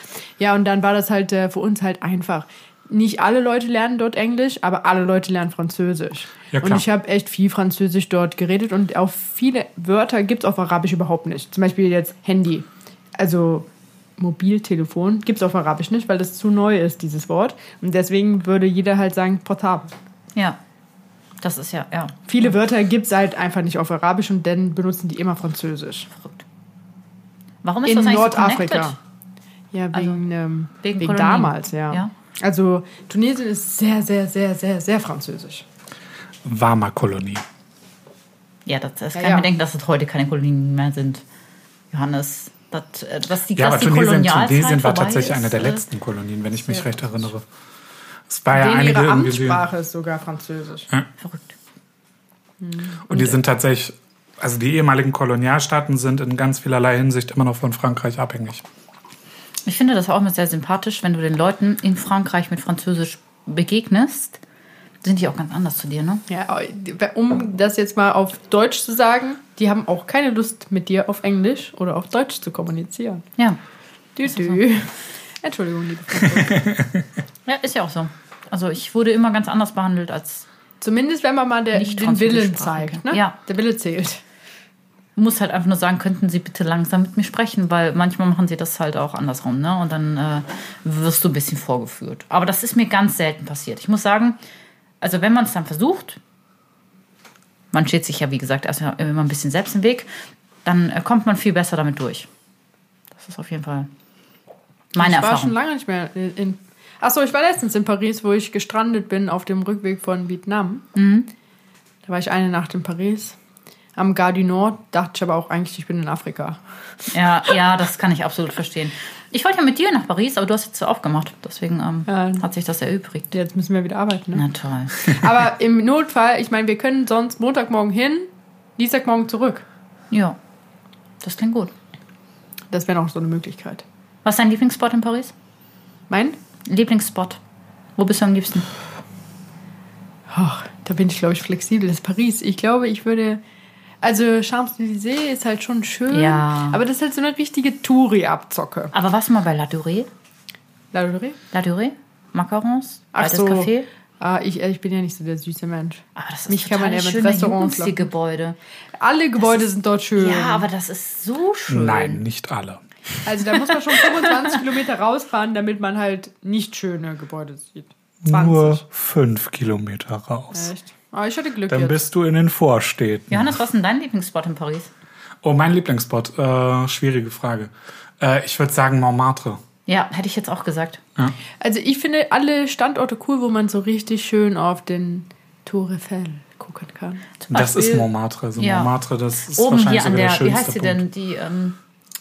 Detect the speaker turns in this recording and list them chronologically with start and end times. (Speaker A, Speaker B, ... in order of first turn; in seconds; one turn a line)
Speaker A: 0.4-12.7
Speaker B: 6.5-6.8
Speaker A: 13.2-13.7
Speaker A: 14.2-19.9
Speaker C: 21.4-22.2
Speaker A: 22.3-26.1
Speaker C: 26.1-26.4
Speaker C: 27.6-28.9
Speaker A: 27.8-28.9
Speaker A: 29.7-35.6
Speaker C: 29.9-30.2
Speaker C: 30.8-32.1
Speaker B: 36.4-37.4
Speaker C: 38.6-41.2
Speaker A: 39.1-39.5
Speaker C: 41.9-45.8
Speaker B: 43.5-47.4
Speaker A: 46.7-47.2
Speaker B: 48.3-49.6
Speaker A: 48.5-50.9
Speaker C: 51.2-51.5
Speaker A: 52.6-53.4
Speaker B: 53.1-58.6
Speaker C: 59.6-64.4
Speaker C: 65.0-66.2
Speaker A: 66.3-73.2
Speaker A: 74.2-76.7
Speaker C: 74.2-74.6
Speaker C: 77.4-80.5
Speaker A: 80.8-84.2
Speaker C: 81.7-83.3
Speaker C: 85.2-94.4
Speaker C: 95.0-96.2
Speaker C: 97.7-100.1
Speaker C: 100.6-102.3
Speaker C: 103.1-103.9
Speaker C: 104.9-105.5
Speaker A: 105.0-110.8
Speaker C: 110.9-111.3
Speaker A: 112.0-113.3
Speaker A: 114.0-116.6
Speaker C: 117.1-123.3
Speaker A: 122.1-122.5
Speaker A: 123.3-124.4
Speaker C: 124.3-125.2
Speaker A: 125.0-129.6
Speaker C: 130.1-130.4
Speaker C: 131.2-131.7
Speaker A: 132.7-133.8
Speaker C: 134.2-135.3
Speaker A: 136.1-136.4
Speaker C: 136.7-137.4
Speaker C: 138.0-138.7
Speaker A: 140.3-143.4
Speaker A: 144.0-148.9
Speaker C: 146.1-146.8
Speaker C: 148.9-150.1
Speaker A: 150.9-151.4
Speaker C: 151.5-153.9
Speaker A: 153.1-158.1
Speaker C: 156.1-158.6
Speaker A: 159.0-160.7
Speaker C: 159.4-162.2
Speaker B: 161.7-162.8
Speaker A: 163.2-168.8
Speaker B: 168.2-170.7
Speaker A: 170.5-172.0
Speaker B: 171.7-173.6
Speaker C: 173.3-174.9
Speaker B: 175.4-179.6
Speaker C: 179.9-181.0
Speaker A: 181.6-187.4
Speaker C: 187.4-188.0
Speaker B: 187.5-191.0
Speaker C: 188.6-188.9
Speaker C: 189.5-191.8